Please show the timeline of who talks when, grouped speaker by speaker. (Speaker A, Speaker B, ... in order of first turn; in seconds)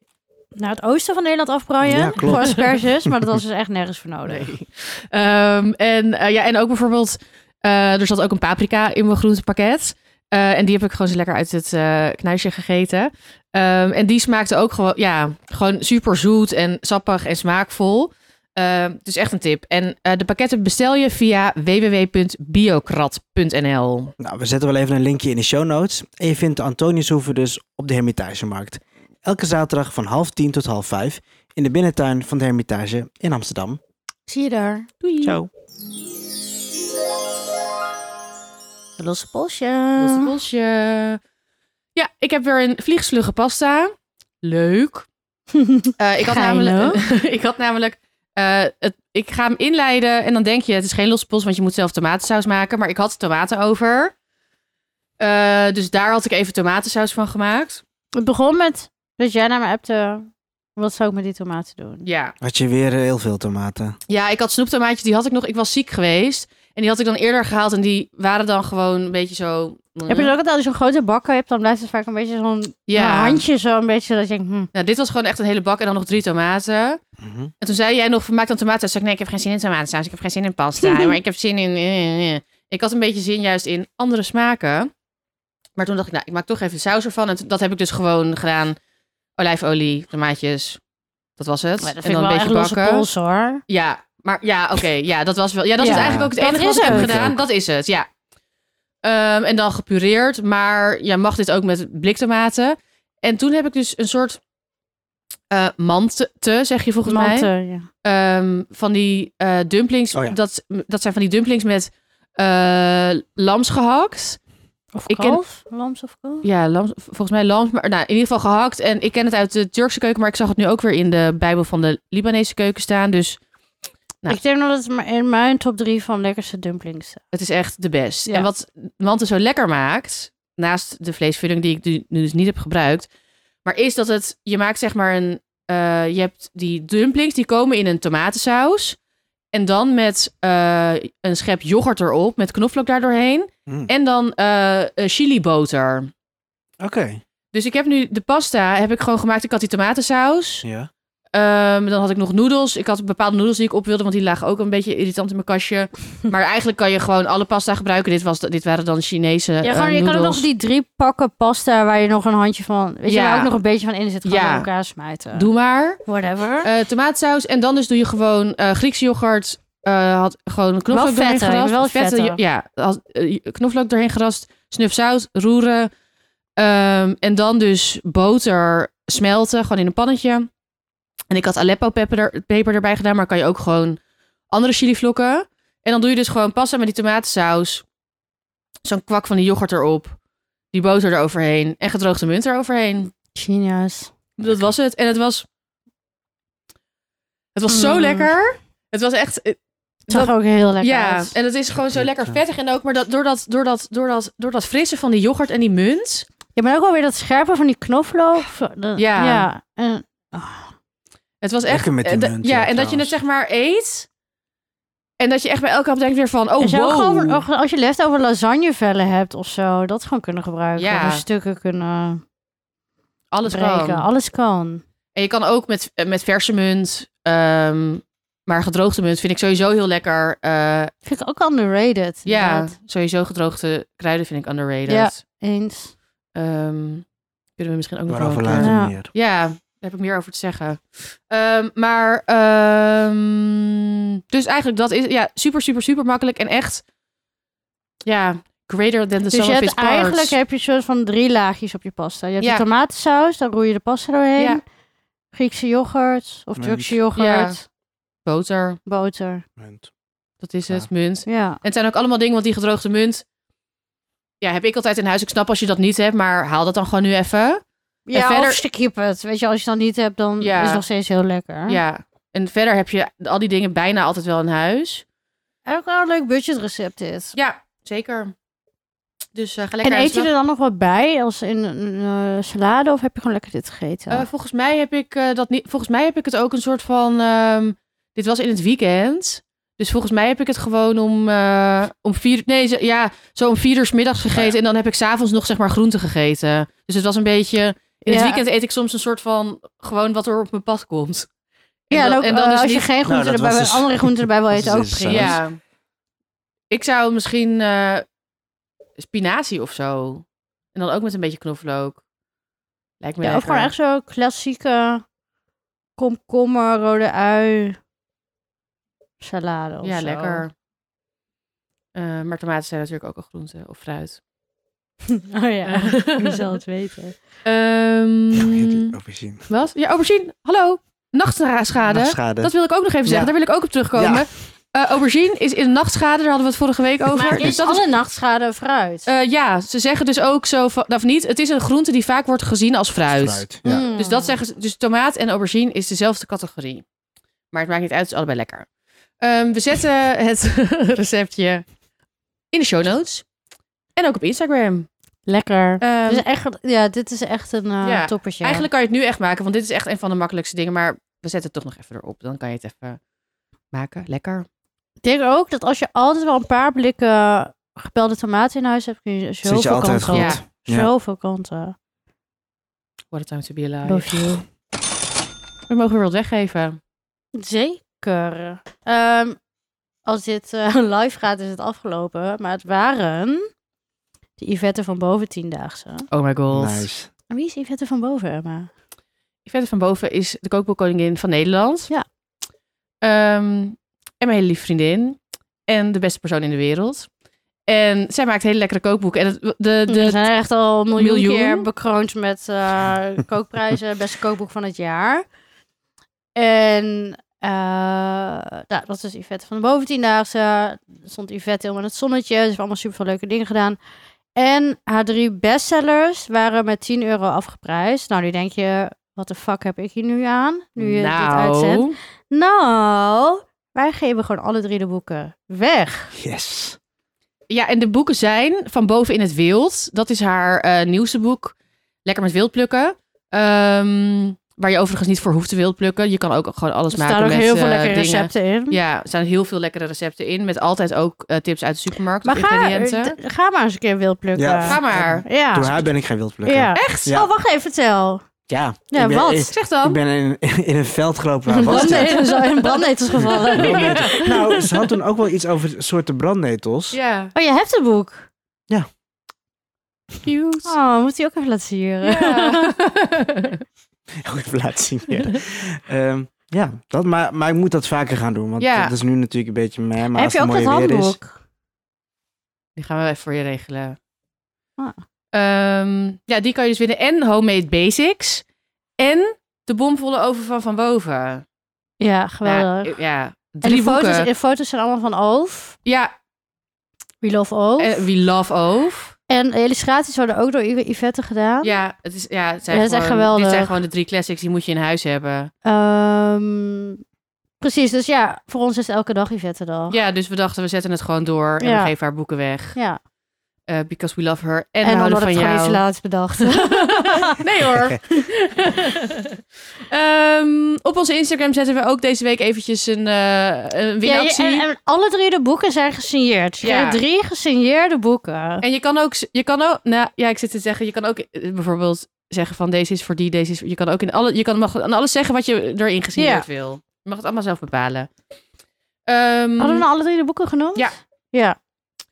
Speaker A: 0.6-4.5, 34.3-34.9, 39.0-40.4, 45.5-47.0, 58.1-62.0, 70.1-74.7, 80.8-81.1, 91.8-93.6, 95.8-97.1, 107.0-107.9, 114.9-116.4, 124.3-127.2, 159.6-165.5, 166.0-166.7, 170.9-172.4, 193.3-194.1, 197.7-198.3, 200.1-201.3, 206.6-210.7, 216.6-222.2, 223.4-224.8, 231.1-232.7, 234.9-235.9, 238.6-238.9, 249.3-254.6, 255.3-257.6, 258.9-259.4, 261.2-261.6, 268.1-271.8, 275.6-277.3, 279.8-284.3, 298.1-298.4, 301.9-305.4, 313.2-315.0, 316.0-317.8, 319.2-320.4, 325.1-327.1, 337.1-339.1, 343.6-344.3, 355.3-358.7, 365.0-371.7, 373.9-374.4, 377.3-379.4, 380.1-383.5, 384.4-386.1, 387.3-388.7, 399.9-405.2, 406.4-413.8, 414.4-426.1, 436.9-438.8, 442.2-445.7, 446.4-448.2, 448.9-449.5, 451.5-454.6, 457.3-458.3, 460.6-462.8, 470.1-471.4, 482.0-482.9, 483.6-485.8, 487.2-488.1, 489.3-491.7, 492.7-493.7, 495.6-497.0, 497.6-500.0, 501.6-501.9, 502.7-503.0, 504.8-507.4, 514.0-518.6, 526.2-526.5, 529.6-531.6
Speaker B: 1.8-3.1, 24.2-33.8, 35.2-35.5, 62.4-64.0, 77.2-77.5, 95.8-97.4, 146.8-147.2, 150.6-150.9, 194.4-194.7, 201.9-202.4, 211.7-213.2, 238.1-239.1, 256.6-257.0, 259.6-259.9, 303.1-305.4, 328.3-329.4, 331.8-332.5, 333.1-333.3, 333.9-334.2, 343.1-343.9, 369.4-370.9, 386.5-387.1, 426.1-426.8, 444.3-447.3, 448.5-452.4, 453.1-457.0, 464.2-471.2
Speaker C: 4.3-24.1, 35.0-35.4, 40.0-41.2, 41.9-45.1, 46.0-54.1, 55.2-57.8, 62.0-62.3, 64.1-70.3, 72.9-73.4, 74.7-77.0, 77.6-84.9, 85.8-88.8, 89.4-90.8, 91.4-93.1, 93.7-98.1, 99.0-104.4, 105.5-107.5, 108.0-114.4, 115.1-115.4, 116.4-123.4, 127.3-133.1, 133.6-139.0, 139.5-146.1, 147.5-150.6, 151.3-160.4, 163.1-163.5, 164.2-164.7, 165.3-166.0, 166.6-175.9, 176.6-180.5, 181.3-184.0, 184.5-187.8, 188.8-190.2, 190.7-193.1, 194.4-195.4, 197.5-206.2, 209.0-209.4, 211.4-214.1, 215.2-217.4, 220.8-221.2, 223.3-224.1, 225.1-230.9, 232.2-235.2, 236.3-237.1, 237.6-246.8, 248.0-250.3, 257.1-257.6, 258.2-258.8, 260.4-263.2, 264.4-267.6, 268.1-268.6, 270.4-270.8, 271.7-275.0, 277.3-278.3, 279.3-280.3, 284.1-301.3, 301.9-302.9, 305.1-305.6, 306.7-308.0, 309.0-312.0, 313.0-313.7, 319.8-320.5, 321.9-324.2, 325.6-326.4, 327.4-328.9, 329.5-337.9, 339.1-343.4, 344.0-346.8, 347.5-348.6, 349.2-351.6, 352.5-353.2, 354.0-354.9, 355.8-356.2, 357.8-363.0, 363.7-364.4, 370.1-370.4, 373.1-374.2, 375.7-376.8, 386.1-386.9, 389.4-391.9, 393.0-397.1, 397.7-400.2, 400.9-401.6, 420.8-421.9, 427.5-431.5, 432.0-443.1, 444.6-445.2, 446.8-447.2, 449.5-450.0, 451.6-454.2, 456.9-457.3, 460.2-460.7, 462.0-463.6, 468.6-468.9, 472.8-474.0, 475.3-478.4, 479.0-481.4, 482.4-484.3, 485.9-486.1, 487.8-489.1, 491.6-495.5, 499.9-502.8, 503.7-505.8, 506.4-514.6, 516.6-517.0, 518.6-528.1, 529.1-529.9